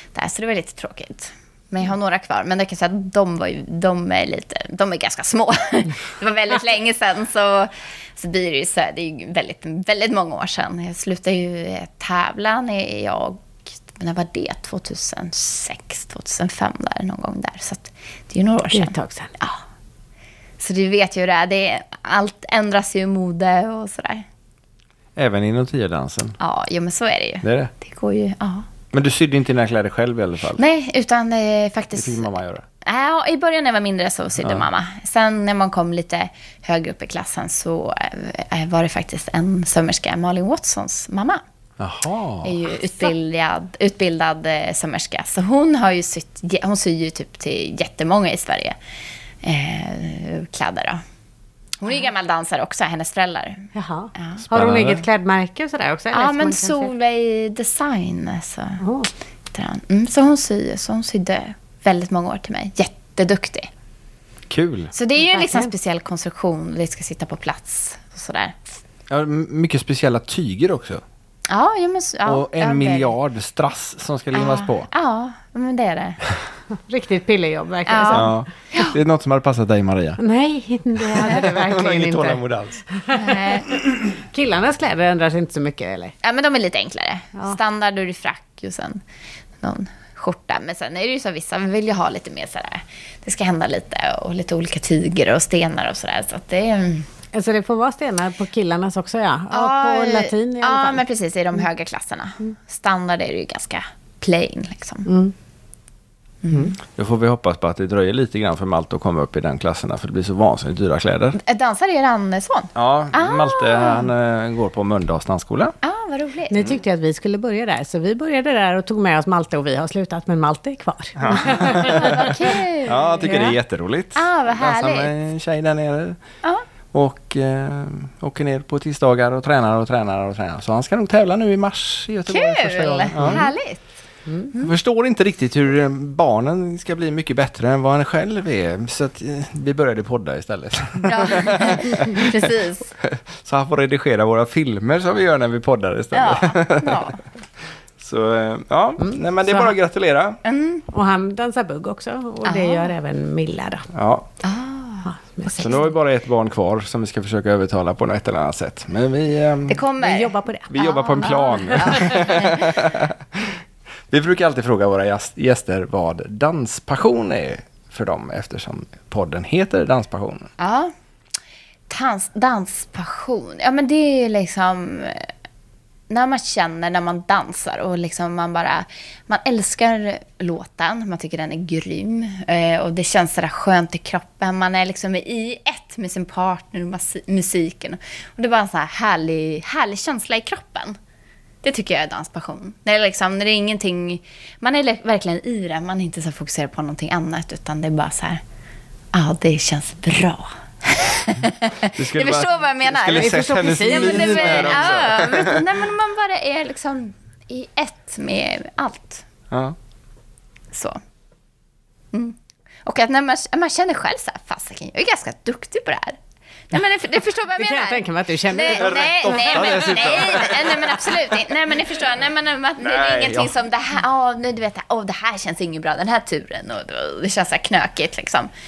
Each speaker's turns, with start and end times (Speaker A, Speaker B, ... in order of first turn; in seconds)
Speaker A: 0.1-19.6, 20.6-24.2, 26.4-28.7, 30.6-32.2, 32.8-41.4, 42.4-48.8, 49.4-51.0, 51.8-54.4, 56.1-58.8, 59.5-63.7, 64.9-68.6, 71.5-73.1, 74.3-76.2, 77.9-78.9, 83.1-83.7, 86.2-89.0, 89.6-97.1, 99.5-105.1, 106.4-106.7, 111.4-114.1, 115.8-116.7, 121.3-123.4, 124.1-125.1, 132.3-133.8, 141.0-142.9, 146.1-147.2, 150.4-150.8, 152.4-152.9, 154.4-155.1, 159.7-162.7, 170.6-170.9, 171.9-175.3, 176.1-191.0, 191.6-198.4, 199.1-209.2, 210.7-211.0, 212.1-216.2, 216.7-228.5
Speaker B: 18.7-19.4, 53.7-56.9, 58.8-59.1, 65.3-65.7, 76.9-78.3, 80.2-86.1, 97.3-101.0, 105.0-105.3, 116.5-122.3, 123.2-123.5, 133.2-133.5, 149.0-149.7, 150.9-153.9, 155.0-155.9, 160.0-162.3, 203.2-205.1, 217.6-219.9
Speaker C: 25.1-26.4, 27.4-27.7, 28.9-30.6, 31.9-32.6, 34.4-34.7, 41.8-42.7, 54.5-55.0, 64.5-64.9, 69.1-71.0, 72.2-74.9, 78.1-80.2, 81.2-82.8, 106.9-111.4, 112.7-115.7, 121.2-126.2, 126.9-133.5, 134.6-142.4, 143.0-147.1, 148.0-150.4, 153.9-154.3, 155.6-159.8, 160.7-163.6, 164.1-170.5, 201.9-205.6, 209.5-209.8, 218.7-221.4, 222.8-223.5